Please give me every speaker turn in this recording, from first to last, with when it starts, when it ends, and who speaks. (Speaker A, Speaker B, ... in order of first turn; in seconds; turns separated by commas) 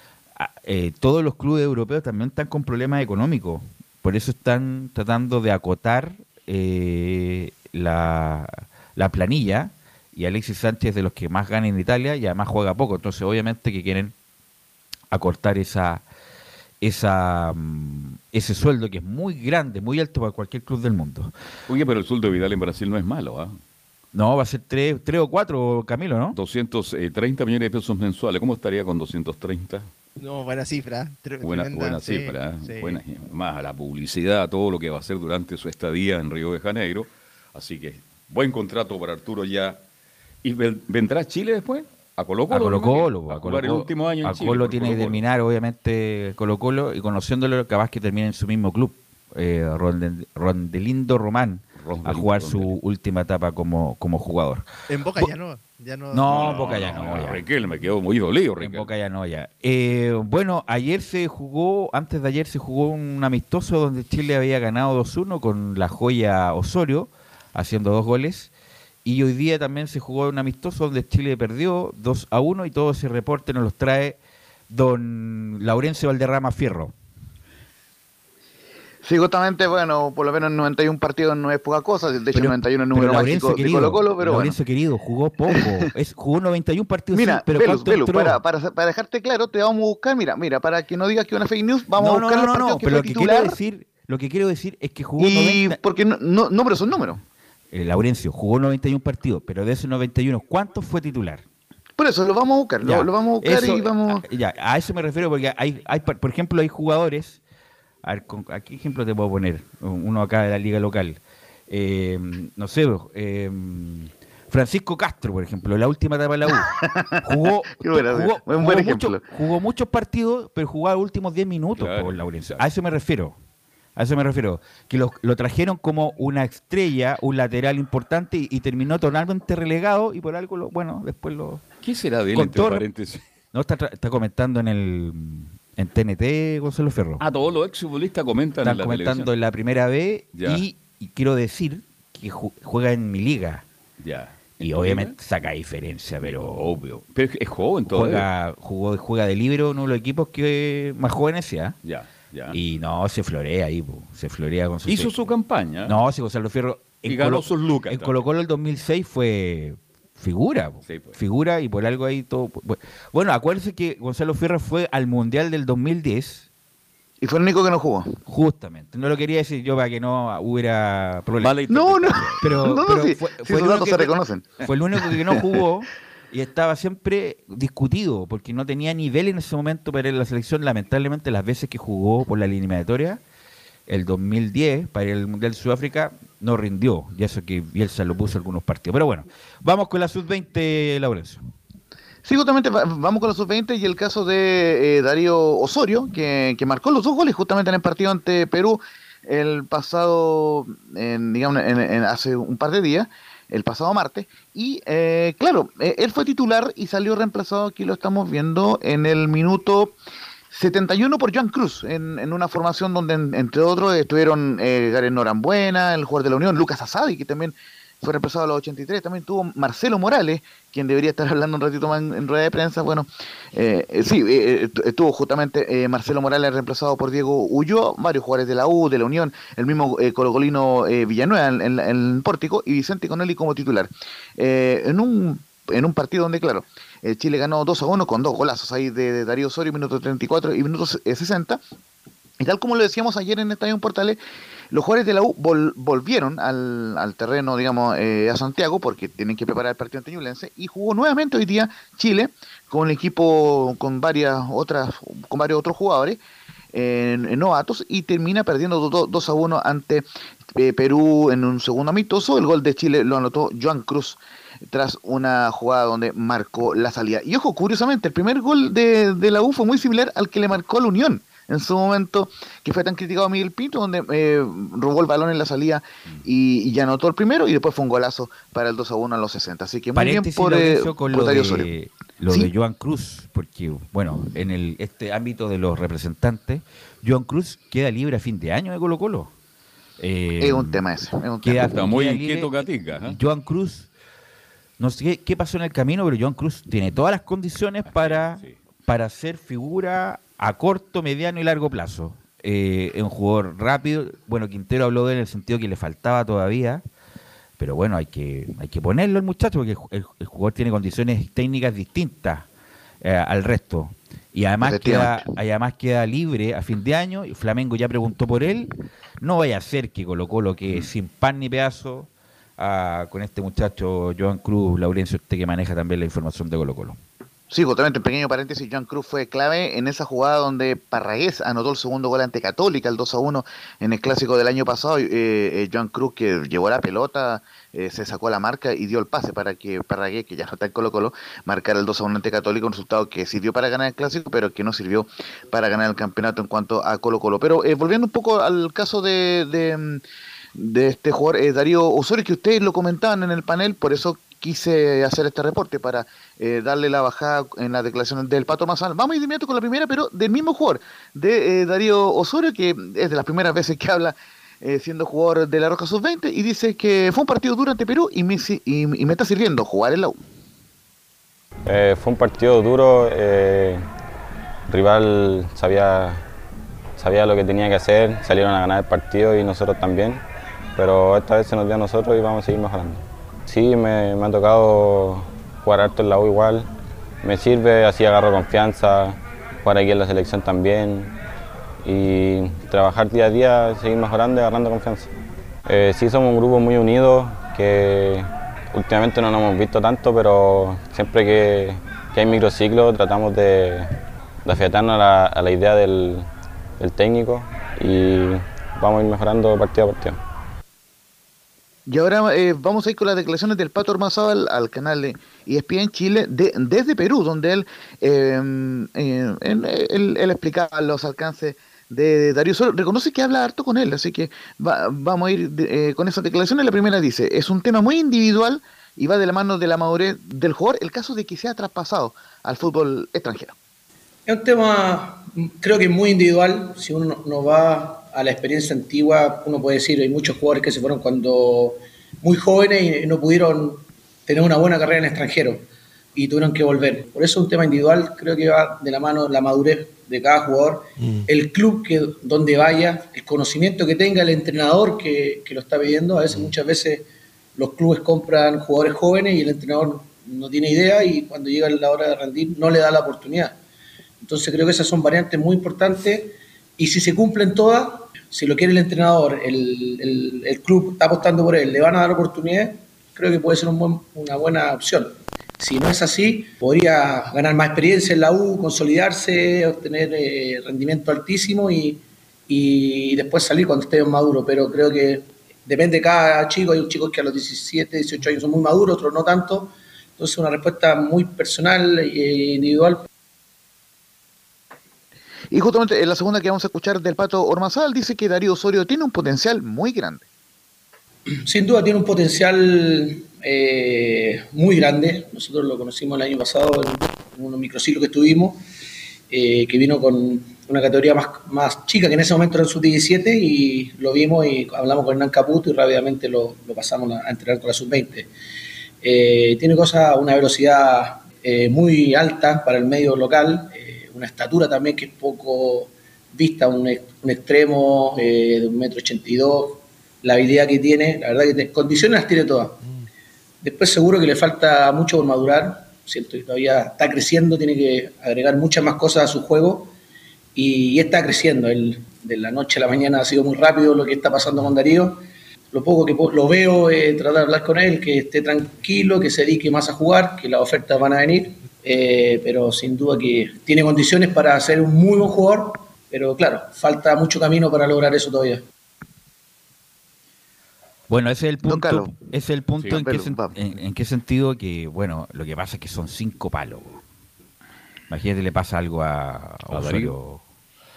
Speaker A: 0.4-14.1, Speaker A: 15.1-16.1, Speaker A: 16.8-21.3, Speaker B: 21.7-23.6, Speaker A: 24.1-26.4, Speaker B: 26.4-29.9, Speaker C: 30.2-33.0, Speaker B: 31.4-39.8, Speaker B: 40.4-45.2, Speaker A: 42.5-54.7, Speaker B: 51.8-52.7, Speaker C: 54.9-57.2, Speaker A: 56.1-57.5, Speaker B: 56.3-58.9, Speaker A: 58.6-68.5, Speaker A: 69.0-74.2, Speaker A: 74.7-76.9, Speaker D: 79.0-84.5, Speaker A: 82.3-88.4, Speaker D: 87.1-93.6, Speaker A: 92.0-95.8, Speaker D: 95.2-97.2, Speaker A: 97.7-101.4, Speaker D: 102.0-104.2, Speaker A: 102.8-107.4, Speaker A: 108.0-123.4, Speaker D: 116.6-117.2, Speaker D: 117.7-119.2, Speaker B: 121.8-122.7, Speaker A: 124.0-131.6, Speaker B: 131.8-133.2, Speaker A: 132.3-132.9, Speaker A: 133.5-137.2, Speaker B: 137.2-139.3, Speaker A: 138.6-143.7, Speaker B: 140.4-140.6, Speaker B: 144.0-145.2, Speaker A: 144.6-146.7, Speaker B: 146.2-148.3, Speaker A: 147.9-151.8, Speaker B: 151.8-152.6, Speaker A: 152.5-155.3, Speaker B: 154.9-156.0, Speaker A: 155.8-166.5, Speaker B: 157.1-158.2, Speaker B: 160.9-161.2, Speaker D: 167.2-168.1, Speaker A: 168.3-183.2, Speaker B: 171.4-172.4, Speaker D: 171.7-174.5, Speaker A: 183.9-191.4, Speaker D: 192.2-210.0, Speaker D: 210.5-241.6, Speaker D: 242.4-244.2, Speaker D: 244.7-256.2, Speaker D: 256.7-281.7, Speaker A: 280.0-289.3, Speaker A: 290.0-290.8, Speaker D: 290.4-291.7, Speaker A: 291.4-292.5, Speaker B: 291.7-293.2, Speaker A: 293.0-293.9, Speaker A: 294.8-306.8, Speaker B: 297.9-298.6, Speaker A: 307.6-312.5, Speaker A: 313.0-318.7, Speaker D: 314.6-315.2, Speaker A: 319.2-327.0, Speaker D: 327.5-350.0, Speaker D: 350.6-370.2, Speaker E: 371.7-373.9, Speaker E: 374.7-376.2, Speaker E: 377.0-380.2, Speaker E: 380.8-386.7, Speaker E: 387.2-391.1, Speaker E: 391.8-395.1, Speaker E: 395.7-406.3, Speaker E: 406.8-410.2, Speaker D: 411.9-433.5, Speaker F: 434.3-457.1, Speaker F: 457.6-463.6, Speaker F: 464.2-493.1, Speaker D: 495.5-500.2, Speaker F: 501.4-508.6, Speaker F: 509.3-518.3, Speaker F: 519.0-532.8, Speaker F: 533.6-539.9, Speaker F: 540.5-558.6, Speaker A: 561.1-567.0, Speaker D: 561.6-562.2, Speaker D: 562.9-563.5, Speaker A: 568.1-570.4, Speaker B: 569.7-570.1